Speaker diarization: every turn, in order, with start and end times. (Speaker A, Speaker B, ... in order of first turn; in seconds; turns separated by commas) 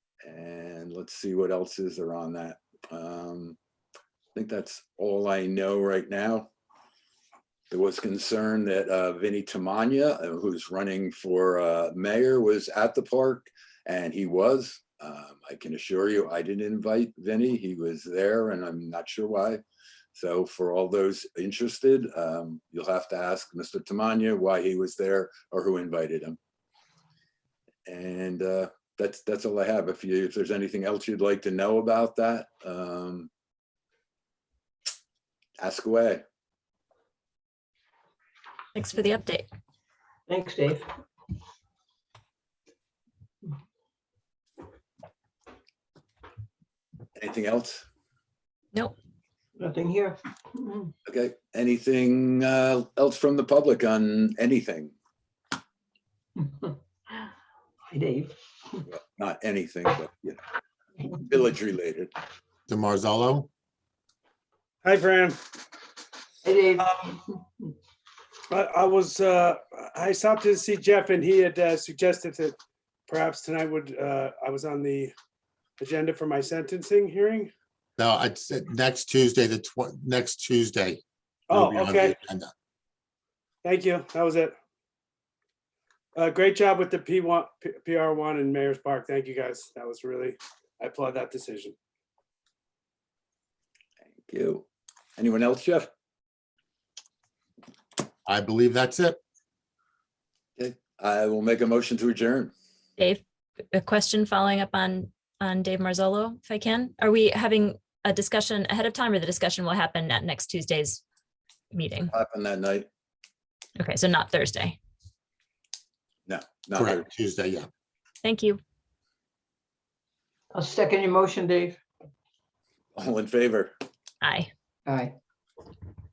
Speaker A: 0.2-3.6, Speaker A: 4.3-6.5, Speaker A: 7.7-19.6, Speaker A: 20.1-26.4, Speaker A: 27.9-33.3, Speaker A: 35.6-36.2, Speaker B: 38.7-39.5, Speaker C: 40.3-40.9, Speaker A: 47.2-47.9, Speaker C: 49.6-50.9, Speaker A: 51.1-54.9, Speaker C: 56.4-56.7, Speaker C: 57.9-58.4, Speaker A: 58.9-60.4, Speaker A: 61.1-62.1, Speaker D: 62.7-63.5, Speaker E: 64.8-65.4, Speaker C: 66.4-67.2, Speaker E: 68.5-72.5, Speaker E: 73.1-75.1, Speaker E: 75.8-77.5, Speaker D: 78.0-82.5, Speaker E: 81.5-82.2, Speaker E: 83.6-84.5, Speaker E: 86.2-91.8, Speaker A: 94.2-94.7, Speaker A: 95.2-95.9, Speaker D: 98.3-99.2, Speaker A: 100.6-102.5, Speaker B: 103.0-111.0, Speaker B: 111.7-112.1, Speaker A: 112.1-112.9, Speaker B: 113.8-114.8, Speaker A: 116.3-117.0, Speaker D: 116.8-117.7, Speaker B: 118.2-118.6, Speaker C: 120.5-121.8, Speaker A: 123.0-123.7, Speaker B: 124.2-124.5, Speaker C: 124.9-125.2